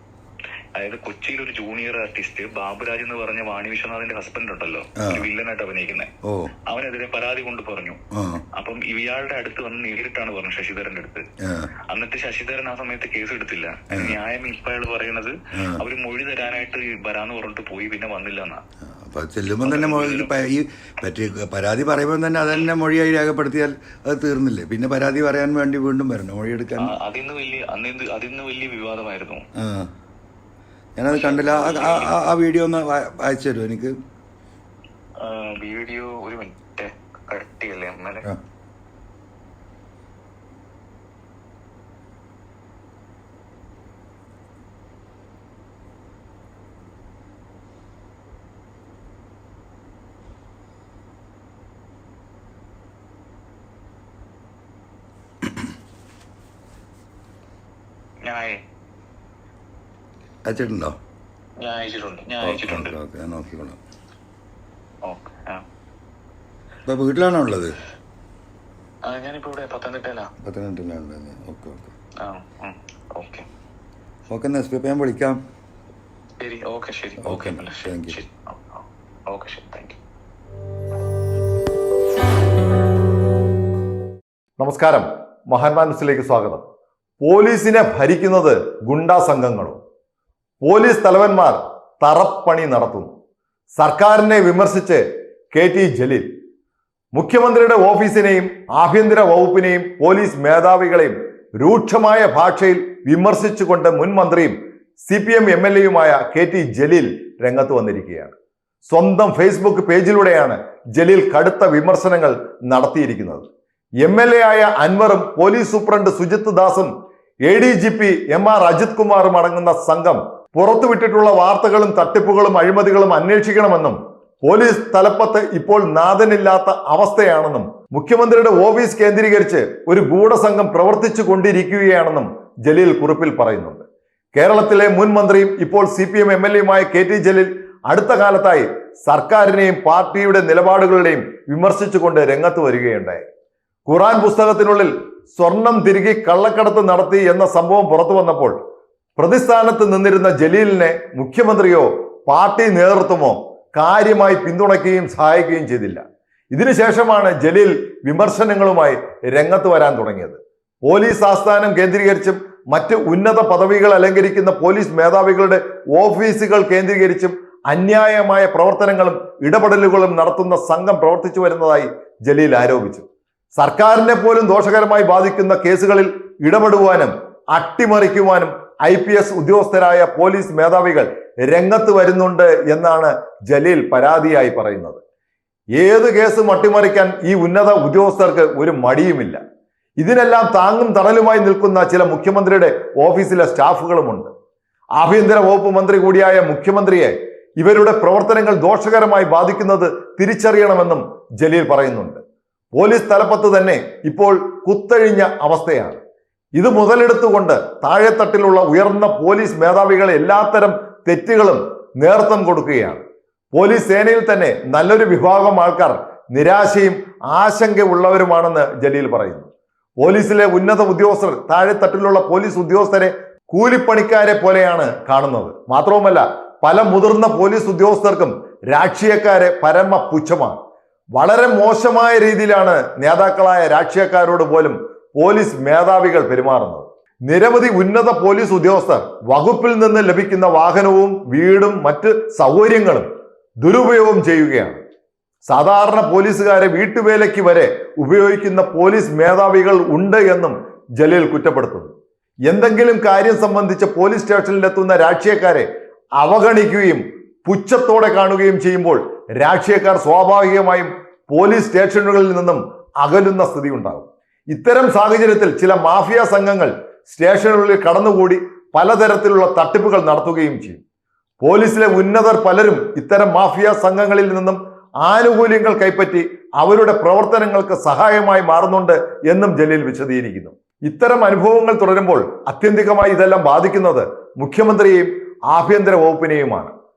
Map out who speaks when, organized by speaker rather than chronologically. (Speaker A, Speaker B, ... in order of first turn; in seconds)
Speaker A: 0.8-6.1, 6.7-8.0, 8.6-11.2, 11.9-18.6, 19.6-20.3, 26.8-29.4, 31.1-32.1, 35.2-38.3, 58.3-58.6, 61.6-63.0, 65.1-65.6, 69.1-70.3, 72.2-73.5, 76.4-80.0
Speaker B: 5.0-5.3, 8.2-8.4, 11.4-11.7, 13.9-14.2, 18.8-27.0, 29.6-29.9, 31.0-33.9, 60.5-61.0, 62.4-63.8, 66.9-67.8, 70.4-71.9, 74.3-75.4, 77.2-78.2
Speaker C: 84.6-86.6, 87.2-89.8, 90.6-93.1, 93.8-95.0, 95.5-96.3, 97.1-108.4, 108.9-113.5, 114.0-116.9, 117.5-143.2, 143.9-148.6, 149.2-185.0, 185.8-189.4, 190.0-194.3, 195.0-202.2, 202.8-206.0, 206.6-213.0, 213.5-219.5, 220.0-230.6, 231.2-243.1, 243.6-244.8, 245.5-251.9, 252.5-255.7, 256.2-270.8, 271.4-286.7